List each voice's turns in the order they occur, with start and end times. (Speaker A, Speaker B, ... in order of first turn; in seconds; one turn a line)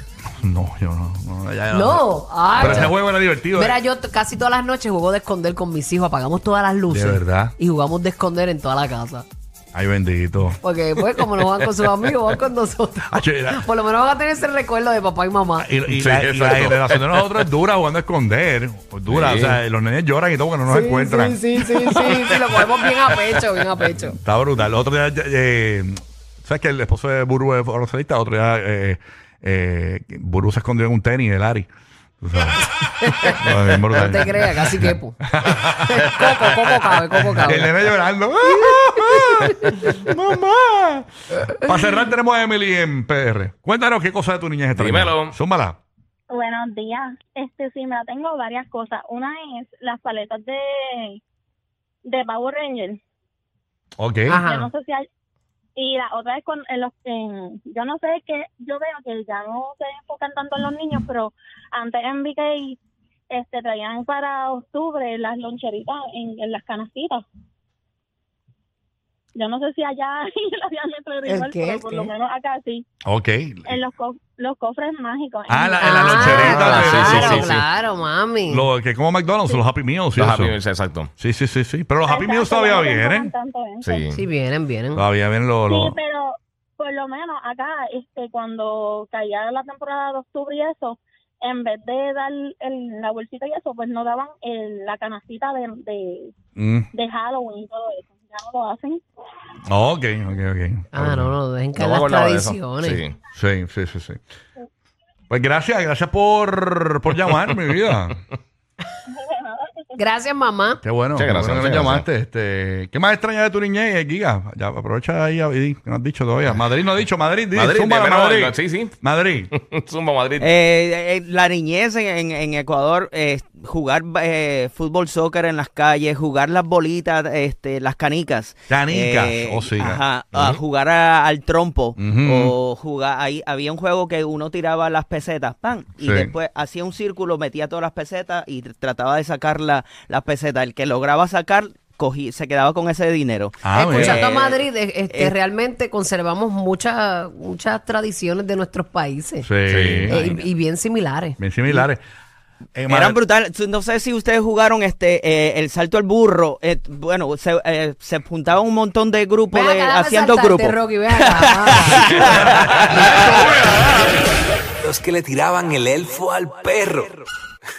Speaker A: 0.4-3.8
Speaker B: 1.7-9.2
Speaker A: 6.9-7.5
Speaker A: 9.7-10.6
Speaker B: 10.6-15.7
Speaker A: 13.1-13.6
Speaker A: 15.6-22.1
Speaker C: 15.9-17.4
Speaker C: 19.1-19.6
Speaker B: 20.7-24.2
Speaker A: 24.2-31.7
Speaker A: 32.2-45.8
Speaker B: 33.0-33.4
Speaker B: 33.9-37.7
Speaker C: 44.7-45.4
Speaker D: 46.3-51.2
Speaker D: 52.0-53.0
Speaker A: 54.0-54.4
Speaker B: 54.3-54.7
Speaker D: 54.4-55.0
Speaker D: 55.8-62.8
Speaker D: 63.3-67.2
Speaker D: 69.3-72.8
Speaker B: 71.2-72.1
Speaker A: 73.0-73.8
Speaker D: 73.7-76.7
Speaker A: 75.5-77.5
Speaker B: 75.8-78.7
Speaker C: 76.4-77.6
Speaker A: 78.5-80.6
Speaker C: 80.1-81.1
Speaker A: 81.2-83.3
Speaker D: 82.0-84.0
Speaker C: 83.8-84.2
Speaker B: 84.1-85.0
Speaker A: 84.9-86.0
Speaker D: 85.7-96.3
Speaker A: 96.6-96.9
Speaker D: 96.9-99.0
Speaker A: 99.7-101.3
Speaker B: 100.9-103.0
Speaker C: 101.8-103.1
Speaker A: 103.3-104.2
Speaker A: 105.3-108.2
Speaker C: 107.4-108.0
Speaker B: 110.0-110.8
Speaker A: 110.8-119.5
Speaker C: 111.2-112.0
Speaker C: 117.5-118.9
Speaker C: 119.5-120.5
Speaker E: 120.4-145.3
Speaker A: 128.7-130.6
Speaker A: 132.0-132.5
Speaker A: 136.0-136.3
Speaker A: 143.6-144.2
Speaker B: 143.7-149.5
Speaker A: 149.4-150.2
Speaker C: 149.7-150.3
Speaker B: 150.1-151.4
Speaker A: 151.4-152.0
Speaker A: 152.7-153.1
Speaker E: 152.8-163.7
Speaker B: 159.5-162.4
Speaker B: 163.0-163.5
Speaker E: 164.8-167.2